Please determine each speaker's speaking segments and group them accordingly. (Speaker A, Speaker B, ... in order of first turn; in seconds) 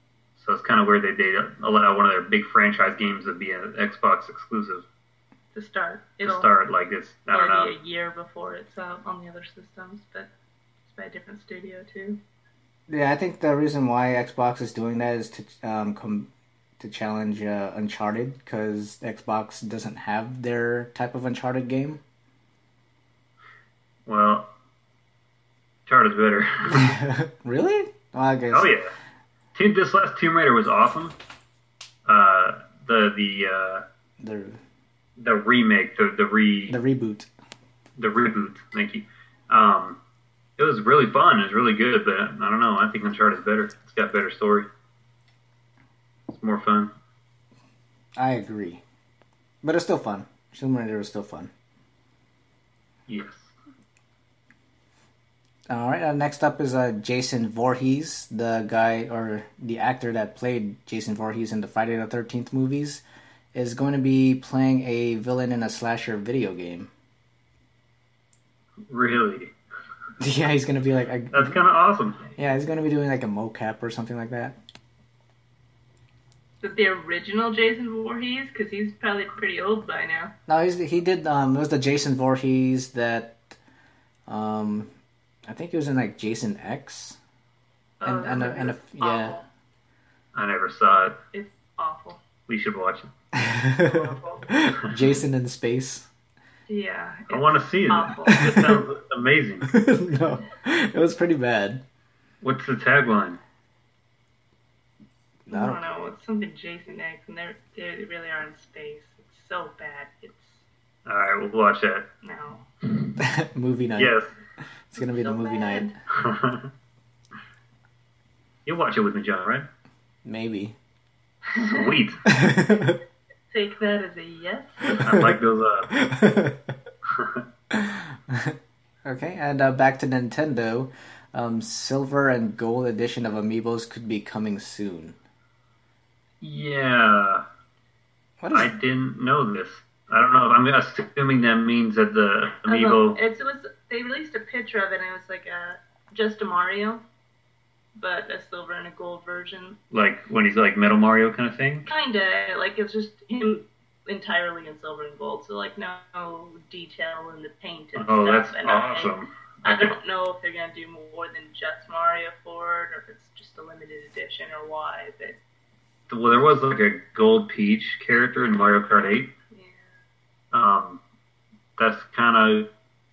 Speaker A: 0.4-4.9, 6.2-7.7, 24.1-24.5, 25.9-26.9, 28.5-28.9, 29.5-31.1, 32.1-33.8, 35.2-36.8, 38.0-40.0, 40.6-44.7, 46.3-46.9, 53.1-53.5, 68.9-69.5, 71.3-72.3, 90.3-91.2, 92.5-93.1, 97.3-99.7, 102.4-103.4, 111.1-112.1, 114.0-114.3, 116.1-116.7, 118.7-119.7, 121.5-122.3, 125.0-125.9, 127.1-127.4, 136.4-137.4, 138.5-143.2, 149.9-151.9, 158.0-159.9, 166.1-169.3, 170.5-171.0, 171.8-172.7
Speaker B: 5.5-6.5, 7.3-10.3, 10.9-12.2, 76.6-80.3, 88.0-89.5, 91.3-92.2, 93.8-94.5, 96.7-98.4, 105.5-110.6, 112.2-112.7, 115.0-115.9, 121.5-121.8, 123.5-125.1, 142.7-147.0, 148.0-149.8, 151.9-159.1, 159.6-165.4, 169.5-169.8
Speaker C: 12.9-22.0, 26.7-28.7, 34.2-34.6, 36.7-37.3, 48.2-48.8, 49.6-51.5, 55.7-63.0, 63.5-66.9, 70.2-71.6, 72.4-74.6, 80.5-83.4, 84.3-84.9, 85.5-87.2, 88.0-89.4, 93.3-96.1, 98.3-98.8, 99.7-101.8, 105.5-105.8, 113.2-114.1, 114.9-115.9, 120.2-120.8, 122.3-123.0, 125.1-125.4, 125.9-126.7, 127.7-135.2, 138.4-138.7